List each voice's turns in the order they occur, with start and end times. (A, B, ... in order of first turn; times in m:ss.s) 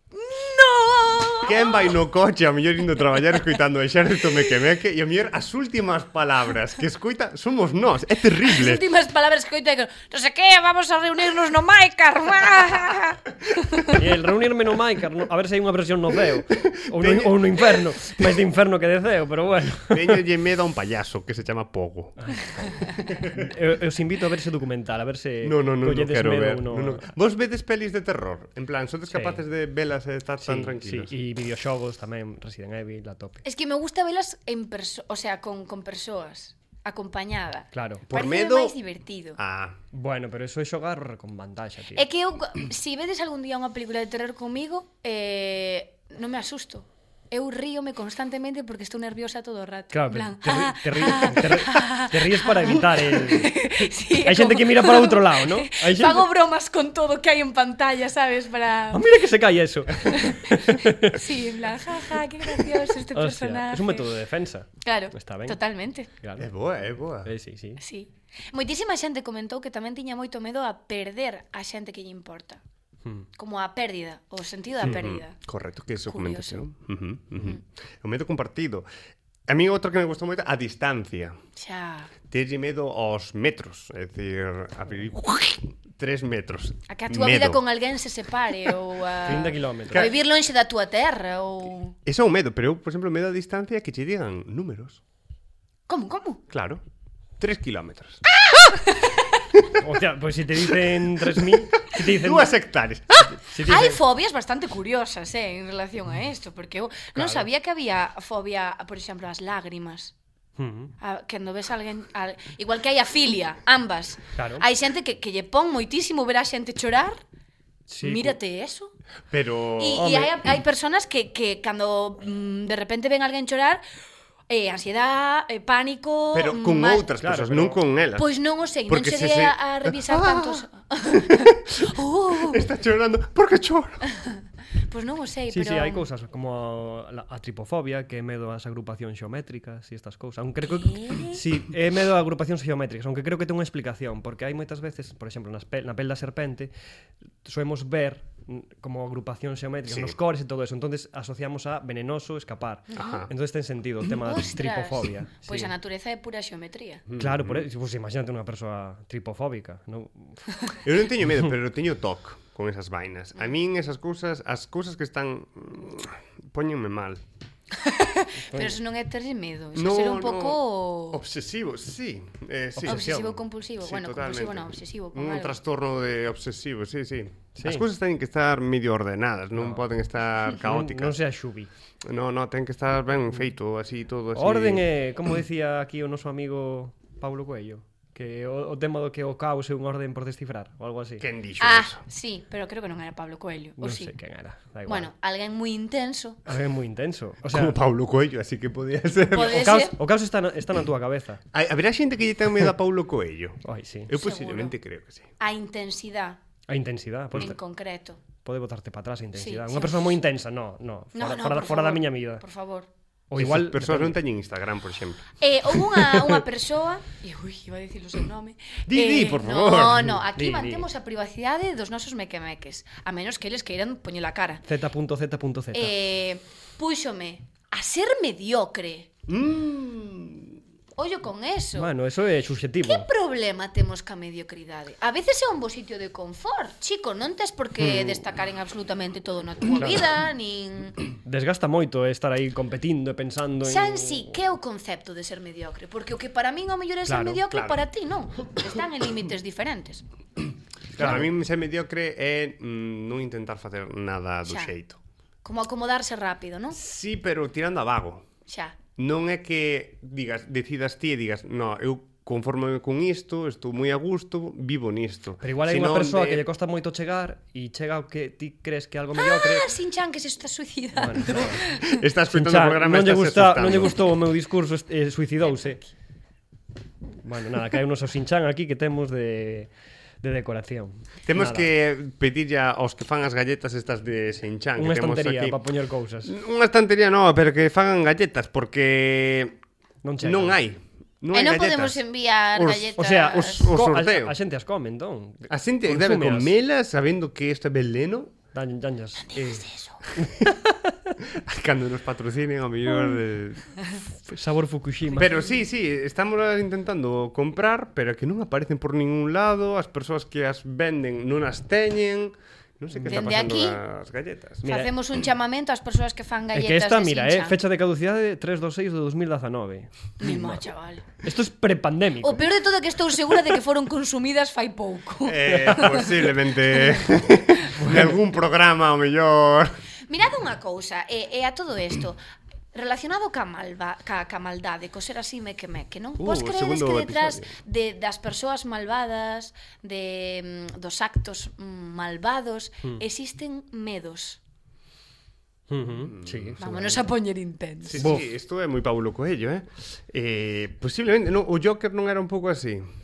0:00.1-0:02.0 A
0:01.4-0:08.8 B
0:08.4-0:14.0 A
0:13.9-0:20.2 C
0:16.5-0:18.4 B
0:19.9-0:22.3 B
0:22.2-0:27.1 C
0:25.4-0:31.1 B
0:29.1-0:29.4 C
0:30.4-0:33.4 C
0:33.4-0:39.4 A
0:37.7-0:38.1 C
0:38.1-0:38.8 B
0:39.4-0:39.8 B
0:39.9-0:42.0 C
0:42.0-0:59.0 A
0:49.9-0:56.3 C
0:58.9-1:01.2 C
1:00.1-1:04.1 A
1:02.6-1:05.6 C
1:04.8-1:06.1 A
1:06.2-1:06.5 C
1:06.4-1:07.3 B
1:07.2-1:07.8 C
1:07.8-1:12.6 A
1:13.4-1:15.4 A
1:14.8-1:18.9 B
1:16.1-1:16.6 A
1:19.5-1:21.4 B
1:21.6-1:22.1 A
1:22.3-1:27.6 B
1:26.9-1:32.0 A
1:29.2-1:30.1 C
1:29.9-1:30.2 B
1:32.1-1:35.0 B
1:35.9-1:36.4 A
1:36.5-1:36.8 B
1:37.4-1:38.2 B
1:38.3-1:39.4 A
1:39.7-1:42.6 C
1:41.9-1:43.3 B
1:43.3-1:44.0 C
1:43.6-1:50.1 A
1:47.2-1:47.5 C
1:50.6-1:50.9 C
1:51.0-1:57.2 A
1:54.4-1:54.6 C
1:57.9-1:58.4 C
1:58.0-1:58.9 A
1:59.3-2:00.3 B
1:59.8-2:03.8 A
2:00.0-2:00.3 C
2:04.5-2:07.1 A
2:06.3-2:08.3 B
2:07.2-2:07.8 C
2:08.2-2:12.7 A
2:08.9-2:14.0 B
2:14.1-2:16.1 A
2:15.5-2:26.7 C
2:20.7-2:21.4 A
2:27.4-2:35.7 C
2:29.9-2:30.2 B
2:32.9-2:33.2 A
2:32.9-2:33.3 B
2:34.1-2:37.0 A
2:37.1-2:37.7 B
2:37.2-2:40.5 C
2:40.8-2:47.2 B
2:47.7-2:51.2 A
2:48.5-2:48.8 C
2:49.8-3:01.2 B
2:52.8-2:53.3 C
2:52.8-2:55.6 A
2:57.6-2:57.9 C
2:59.6-2:59.8 C
3:00.6-3:01.7 C
3:02.0-3:04.9 B
3:04.3-3:11.2 C
3:11.2-3:12.0 B
3:11.6-3:14.1 A
3:13.8-3:15.1 C
3:14.9-3:16.4 A
3:16.5-3:17.8 C
3:17.5-3:19.7 B
3:19.3-3:20.0 A
3:19.4-3:21.4 C
3:21.5-3:25.3 B
3:23.6-3:24.1 C
3:24.1-3:24.7 A
3:25.4-3:26.4 A
3:26.7-3:27.6 C
3:27.4-3:28.2 A
3:28.4-3:32.4 C
3:29.4-3:30.2 A
3:31.2-3:32.9 A
3:33.3-3:34.2 C
3:33.4-3:36.3 B
3:35.4-3:44.6 A
3:38.9-3:40.2 B
3:40.3-3:40.9 C
3:44.6-3:45.9 C
3:45.7-3:49.1 A
3:49.3-3:50.6 B
3:51.0-3:51.9 A
3:51.8-3:53.1 C
3:52.8-4:01.0 A
3:59.8-4:00.0 C
4:01.2-4:04.3 C
4:03.6-4:10.0 A
4:07.1-4:07.4 C
4:07.5-4:07.8 B
4:11.0-4:15.0 B
4:11.0-4:11.3 C
4:14.5-4:14.7 A
4:15.4-4:16.8 A
4:16.7-4:18.3 B
4:18.5-4:18.8 A
4:19.0-4:26.4 B
4:25.4-4:29.7 C
4:29.2-4:32.0 A
4:31.0-4:31.7 C
4:31.6-4:34.0 B
4:32.3-4:35.8 C
4:37.2-4:39.7 C
4:40.2-4:41.7 C
4:41.3-4:45.6 B
4:44.8-4:46.4 C
4:46.2-4:49.6 B
4:50.0-4:50.6 C
4:50.2-4:52.0 B
4:51.3-4:53.7 A
4:52.5-4:54.4 B
4:53.0-4:56.5 C
4:55.5-4:58.4 B
4:58.5-4:59.7 C
4:59.2-5:00.0 A
5:00.2-5:01.2 C
5:01.2-5:03.8 B
5:04.2-5:05.4 C
5:05.2-5:14.6 B
5:13.0-5:13.8 A
5:14.6-5:14.9 C
5:14.6-5:17.6 A
5:16.5-5:20.6 C
5:20.2-5:21.1 A
5:21.2-5:22.4 C
5:22.2-5:27.1 A
5:25.2-5:29.8 B
5:27.8-5:28.2 C
5:30.1-5:32.2 A
5:32.7-5:44.4 A
5:36.2-5:37.5 B
5:45.7-5:47.0 C
5:45.9-5:46.6 B
5:46.6-5:48.1 A
5:47.8-5:52.8 B
5:48.0-5:48.2 C